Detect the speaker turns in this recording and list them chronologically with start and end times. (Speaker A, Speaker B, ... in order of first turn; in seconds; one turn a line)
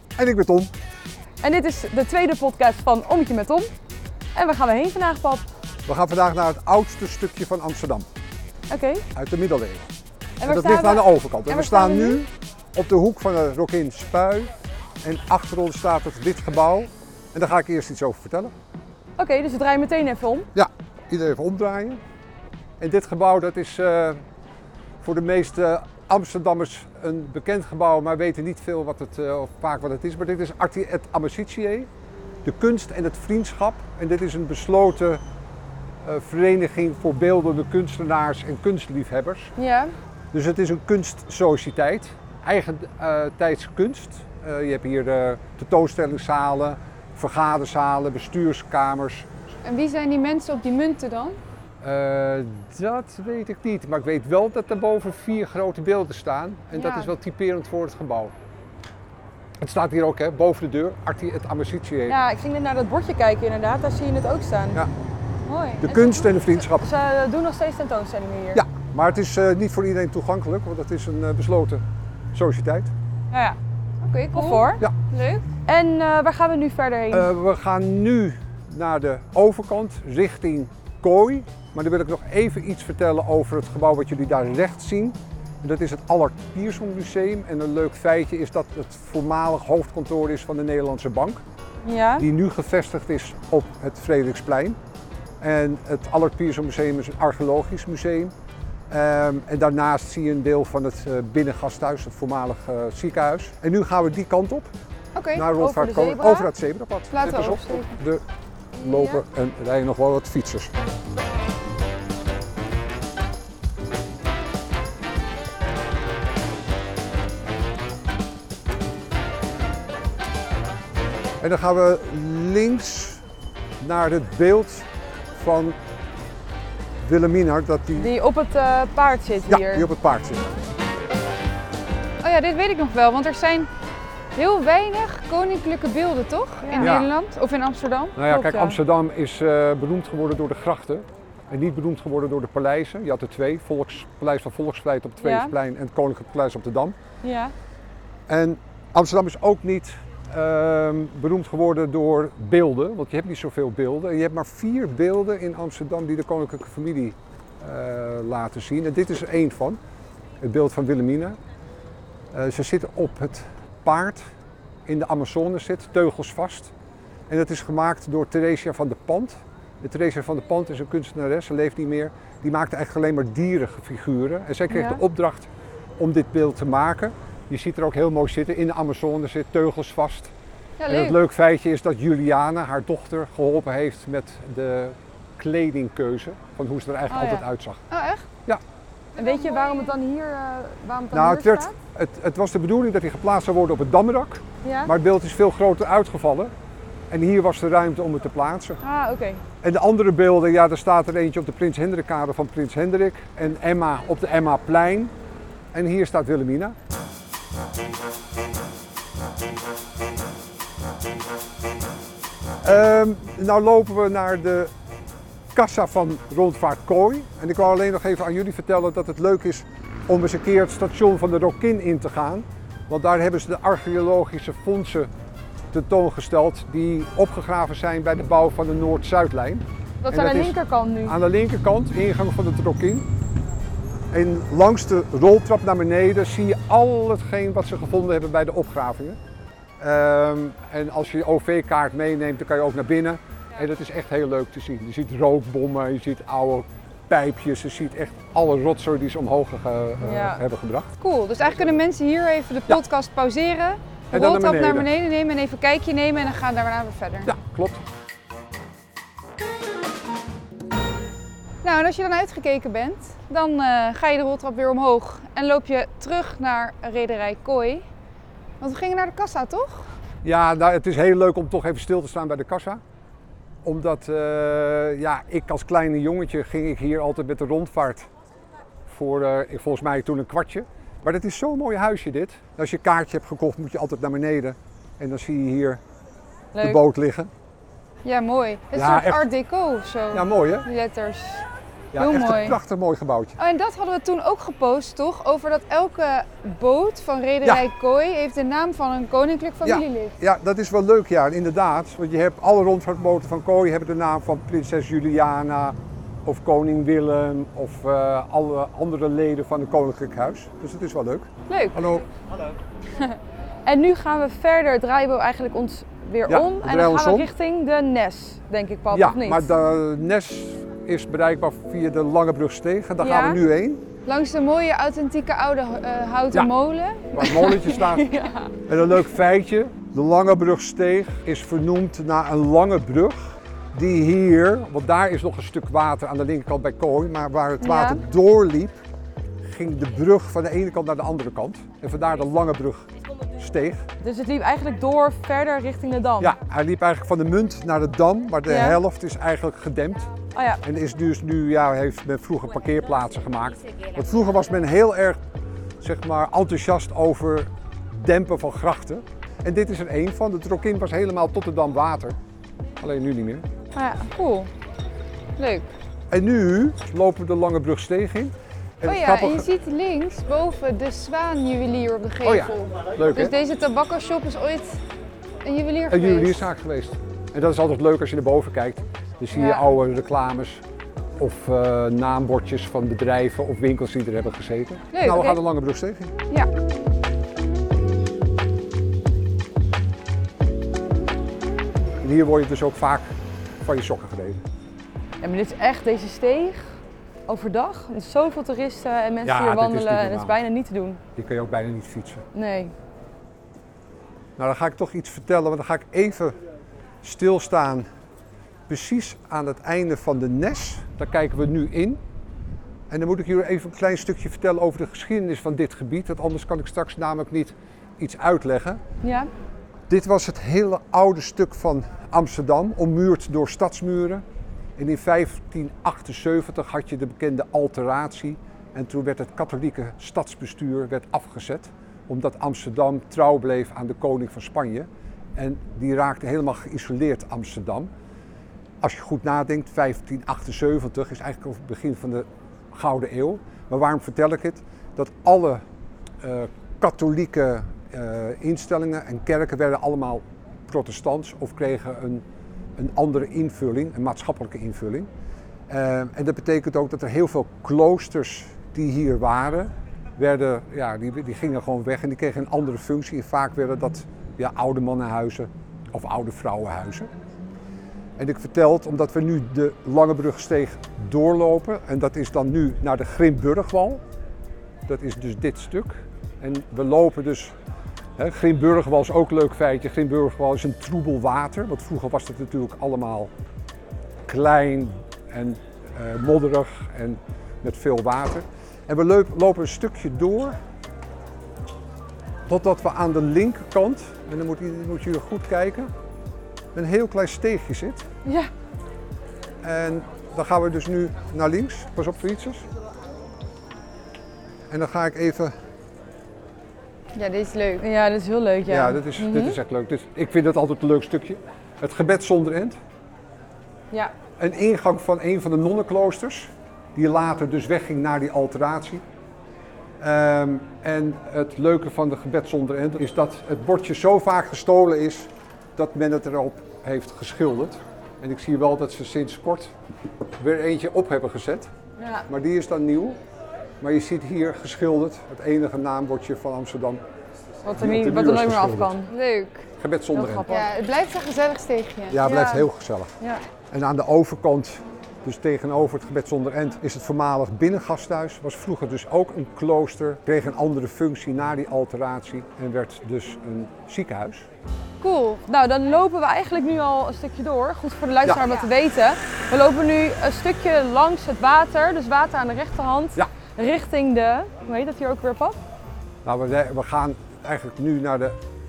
Speaker A: 0.2-0.7
Speaker B: 1.4-3.7
Speaker B: 4.3-5.5
Speaker A: 5.8-8.1
Speaker B: 8.7-9.0
Speaker A: 9.1-9.8
Speaker B: 10.4-12.2
Speaker A: 10.4-18.5
Speaker B: 19.2-20.5
Speaker A: 20.5-22.0
Speaker A: 22.8-24.2
Speaker A: 25.0-31.9
Speaker A: 32.4-35.2
Speaker A: 36.0-39.5
Speaker B: 39.6-39.9
Speaker A: 40.3-49.3
Speaker C: 49.6-51.4
Speaker A: 51.8-58.3
Speaker C: 56.7-57.1
Speaker A: 59.6-62.2
Speaker B: 62.1-64.8
Speaker C: 65.5-66.3
Speaker A: 65.8-66.9
Speaker B: 66.8-68.6
Speaker A: 68.5-72.9
Speaker C: 73.3-75.4
Speaker B: 74.3-74.8
Speaker B: 75.7-77.3
Speaker A: 77.1-91.4
Speaker B: 91.8-92.3
Speaker A: 92.2-94.8
Speaker A: 95.4-98.3
Speaker A: 98.9-104.7
Speaker C: 105.1-105.5
Speaker A: 105.3-108.2
Speaker B: 105.5-106.5
Speaker C: 107.1-107.8
Speaker A: 108.8-110.7
Speaker B: 108.8-109.2
Speaker A: 121.4-123.2
Speaker A: 123.8-125.8
Speaker A: 127.0-128.1
Speaker B: 128.0-129.9
Speaker A: 129.5-130.4
Speaker C: 132.2-133.7
Speaker C: 134.3-138.2
Speaker B: 136.6-136.9
Speaker A: 136.8-137.1
Speaker A: 138.2-146.9
Speaker B: 138.2-138.8
Speaker B: 145.2-145.5
Speaker B: 147.2-147.5
Speaker A: 148.3-159.8
Speaker A: 160.4-161.4
Speaker A: 162.3-164.2
Speaker A: 164.8-166.7
Speaker A: 167.3-180.3
Speaker B: 174.7-175.0
Speaker C: 180.8-181.2
Speaker A: 180.9-187.8
Speaker B: 187.1-187.4
Speaker C: 187.9-188.3
Speaker C: 189.2-189.9
Speaker B: 189.2-191.7
Speaker A: 191.1-196.5
Speaker B: 194.6-194.9
Speaker A: 197.1-198.8
Speaker B: 198.8-199.4
Speaker A: 199.6-205.1
Speaker A: 205.7-206.8
Speaker A: 212.6-214.7
Speaker A: 215.5-225.1
Speaker A: 225.7-233.1
Speaker B: 230.1-231.2
Speaker A: 234.1-239.2
Speaker A: 239.8-250.9
Speaker B: 250.0-250.4
Speaker C: 251.0-257.3
Speaker A: 254.1-254.9
Speaker A: 257.2-257.8
Speaker C: 261.6-267.9
Speaker C: 268.6-269.9
Speaker A: 270.2-272.8
Speaker A: 273.6-278.1
Speaker A: 278.9-285.8
Speaker B: 286.5-286.8
Speaker A: 286.6-287.3
Speaker C: 288.0-291.4
Speaker A: 288.7-289.3
Speaker A: 290.1-290.7
Speaker A: 291.9-293.4
Speaker C: 291.9-292.6
Speaker C: 293.4-300.1
Speaker A: 299.6-312.1
Speaker C: 311.5-311.8
Speaker B: 313.6-319.5
Speaker A: 316.3-317.3
Speaker A: 318.9-323.8
Speaker B: 323.0-323.4
Speaker C: 324.1-327.4
Speaker A: 327.1-338.8
Speaker B: 327.2-328.5
Speaker C: 337.6-338.0
Speaker A: 339.4-343.9
Speaker B: 344.0-346.3
Speaker A: 346.2-355.2
Speaker B: 348.5-348.8
Speaker B: 350.3-350.6
Speaker A: 355.8-362.2
Speaker A: 362.8-363.4
Speaker B: 363.8-364.1
Speaker C: 363.9-364.5
Speaker C: 365.4-365.7
Speaker A: 366.1-369.5
Speaker C: 368.8-374.8
Speaker A: 372.2-373.4
Speaker C: 375.4-376.4
Speaker A: 375.9-380.6
Speaker A: 381.2-386.1
Speaker C: 384.9-385.4
Speaker A: 392.0-394.4
Speaker B: 395.2-401.0
Speaker A: 399.2-400.4
Speaker A: 401.1-402.2
Speaker B: 402.3-402.7
Speaker A: 404.4-406.4
Speaker A: 407.0-407.9
Speaker A: 408.7-412.0
Speaker A: 412.9-418.8
Speaker B: 419.0-419.3
Speaker A: 419.9-424.2
Speaker A: 424.8-437.9
Speaker A: 438.8-445.6
Speaker A: 446.2-452.2
Speaker A: 452.8-455.1
Speaker A: 455.7-467.1
Speaker A: 468.2-474.0
Speaker A: 474.9-477.5
Speaker A: 478.2-483.3
Speaker A: 484.2-490.6
Speaker A: 492.5-495.9
Speaker A: 496.7-498.0
Speaker B: 498.2-498.5
Speaker A: 499.6-502.6
Speaker A: 504.7-505.5
Speaker C: 507.1-507.8
Speaker B: 507.8-509.6
Speaker A: 508.7-512.8
Speaker A: 514.4-519.0
Speaker A: 520.0-529.7
Speaker A: 530.4-531.7
Speaker B: 532.0-532.2
Speaker A: 532.3-533.2
Speaker A: 533.8-537.0
Speaker B: 537.6-539.1
Speaker A: 537.7-539.0
Speaker C: 539.1-539.7
Speaker A: 539.8-540.5
Speaker B: 540.1-540.7
Speaker C: 540.5-542.2
Speaker A: 542.1-543.1
Speaker B: 542.2-542.7
Speaker A: 543.7-554.5
Speaker C: 555.0-555.4
Speaker B: 555.5-565.6
Speaker A: 566.2-568.4